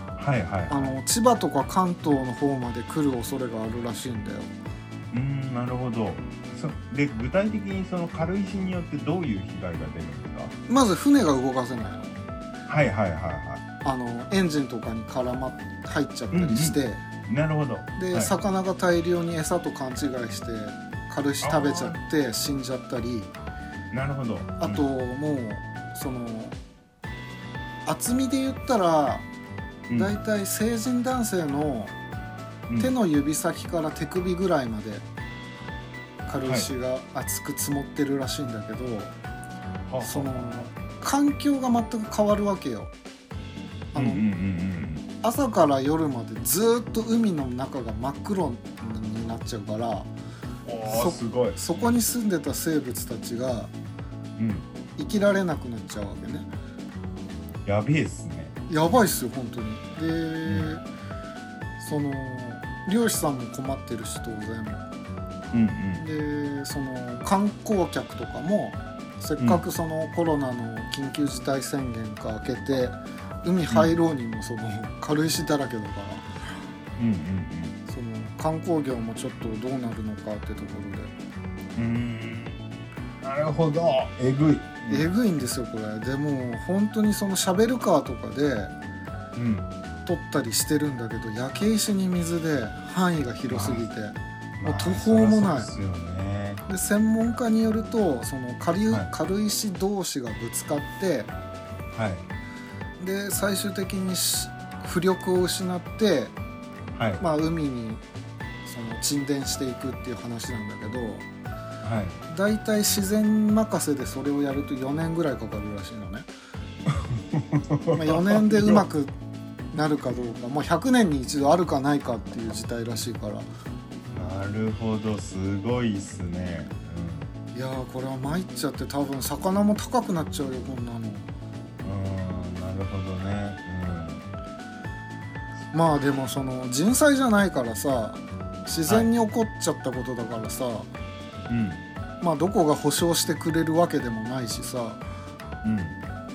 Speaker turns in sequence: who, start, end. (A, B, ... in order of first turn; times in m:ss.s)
0:00.2-0:01.0 A
0:00.7-0:04.5 B
0:05.1-0:10.5 A
0:10.7-0:12.2 B
0:12.7-0:13.6 A
0:13.8-0:17.0 B
0:16.3-0:18.3 A
0:18.0-0:23.3 B
0:21.4-0:22.0 A
0:23.9-0:24.8 A
0:24.6-0:26.6 B
0:27.9-0:29.2 B
0:29.9-0:30.2 A
0:30.0-0:31.9 B
0:32.7-0:32.9 A
0:32.8-0:35.0 B
0:36.3-0:39.1 B
0:36.4-0:36.7 A
0:39.9-0:40.6 A
0:40.0-0:42.9 B
0:43.9-0:44.2 B
0:43.9-0:45.0 A
0:45.2-0:50.1 B
0:50.7-0:51.9 A
0:50.9-0:53.7 B
0:54.4-0:54.7 A
0:55.0-0:56.5 B
0:57.6-0:58.6 A
0:58.7-1:00.8 B
1:01.8-1:04.8 B
1:05.5-1:06.0 A
1:06.0-1:16.3 B
1:09.4-1:09.6 A
1:13.7-1:14.0 A
1:17.0-1:17.8 A
1:17.9-1:21.1 B
1:21.8-1:22.6 A
1:23.2-1:25.1 A
1:24.9-1:28.7 B
1:29.4-1:29.7 A
1:30.1-1:35.7 B
1:33.5-1:33.8 A
1:34.6-1:36.6 A
1:36.7-1:41.3 B
1:41.9-1:42.2 A
1:43.0-1:46.4 B
1:47.0-1:47.2 A
1:47.2-1:48.0 B
1:48.7-1:51.3 B
1:51.8-1:52.2 A
1:52.3-1:56.3 B
1:56.9-1:58.8 A
1:57.9-1:59.1 B
1:59.7-2:03.5 B
2:04.1-2:07.3 A
2:07.5-2:11.3 B
2:11.8-2:14.2 A
2:15.7-2:20.9 B
2:21.5-2:21.8 A
2:22.2-2:25.0 B
2:25.6-2:26.0 A